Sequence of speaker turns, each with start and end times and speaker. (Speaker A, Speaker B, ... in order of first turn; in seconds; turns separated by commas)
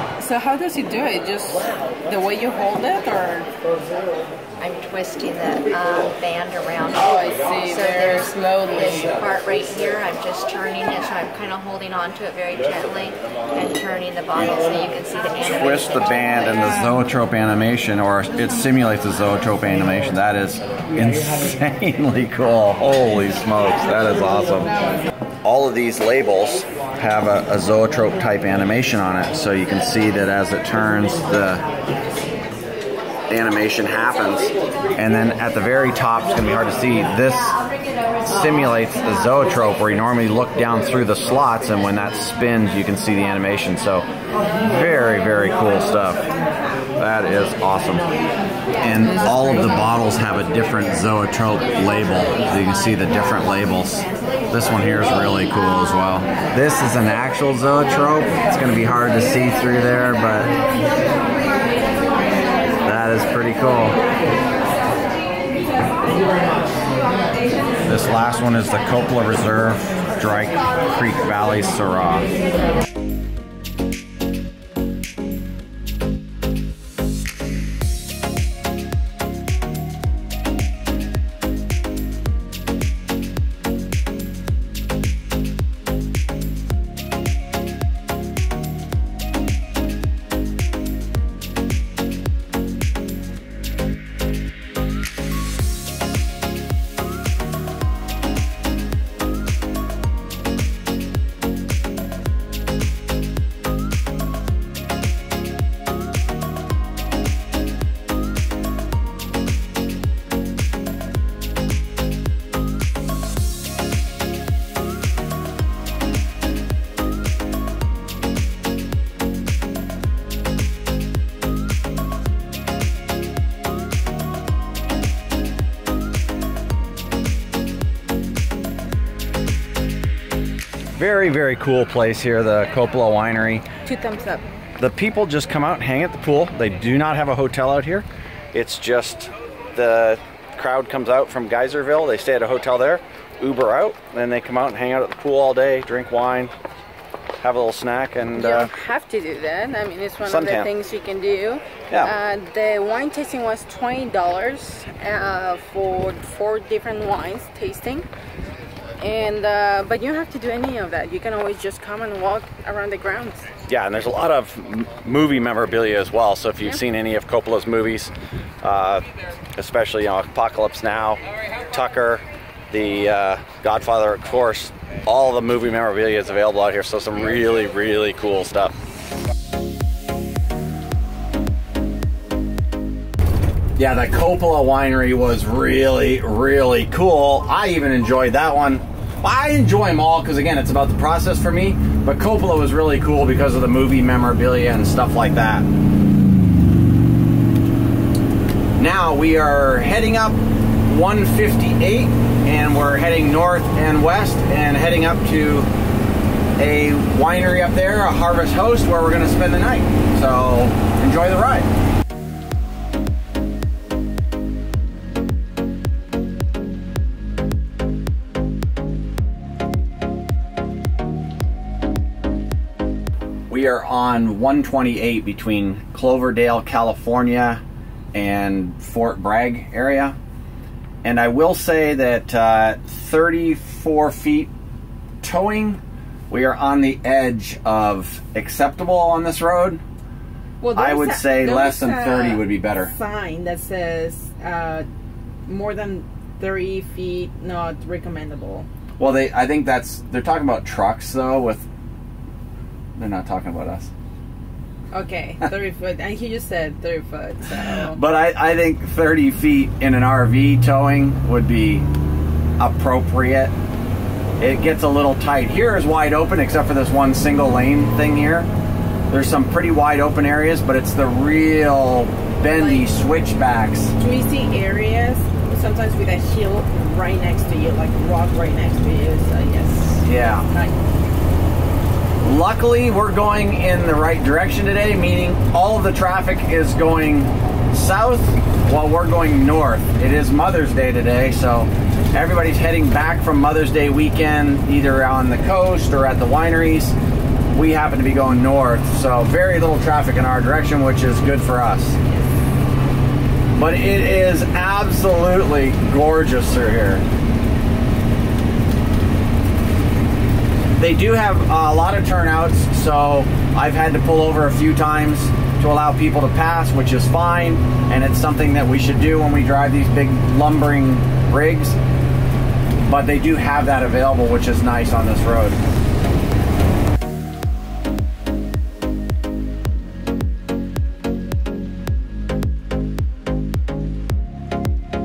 Speaker A: 0.2-3.5, Speaker B: 4.6-16.8, Speaker A: 6.9-9.1, Speaker C: 15.4-24.7, Speaker C: 25.4-31.6, Speaker C: 33.3-37.5, Speaker C: 38.2-44.0, Speaker C: 44.6-46.2, Speaker C: 47.0-48.0, Speaker C: 48.8-60.5, Speaker C: 62.8-63.9, Speaker C: 67.8-72.3, Speaker C: 131.0-133.7, Speaker A: 133.8-134.4, Speaker C: 134.8-146.5, Speaker C: 147.4-148.7, Speaker A: 148.3-158.1, Speaker C: 150.2-150.7, Speaker A: 159.0-163.5, Speaker C: 163.7-178.7, Speaker C: 183.8-195.7, Speaker C: 198.8-205.7, Speaker C: 206.6-211.7, Speaker C: 223.5-227.6, Speaker C: 228.1-230.2, Speaker C: 231.0-234.5, Speaker C: 235.2-239.8, Speaker A: 240.6-244.9, Speaker C: 240.8-242.9, Speaker A: 245.5-248.7, Speaker C: 249.0-251.7, Speaker C: 253.0-253.9, Speaker A: 254.9-258.0, Speaker C: 257.7-261.9, Speaker C: 262.6-263.5, Speaker C: 264.4-268.5, Speaker C: 269.1-273.9, Speaker A: 272.5-272.9, Speaker A: 274.0-280.8, Speaker C: 280.0-280.5, Speaker C: 282.2-297.0, Speaker C: 297.5-302.0, Speaker C: 303.5-307.0, Speaker C: 310.8-321.8, Speaker C: 322.8-325.6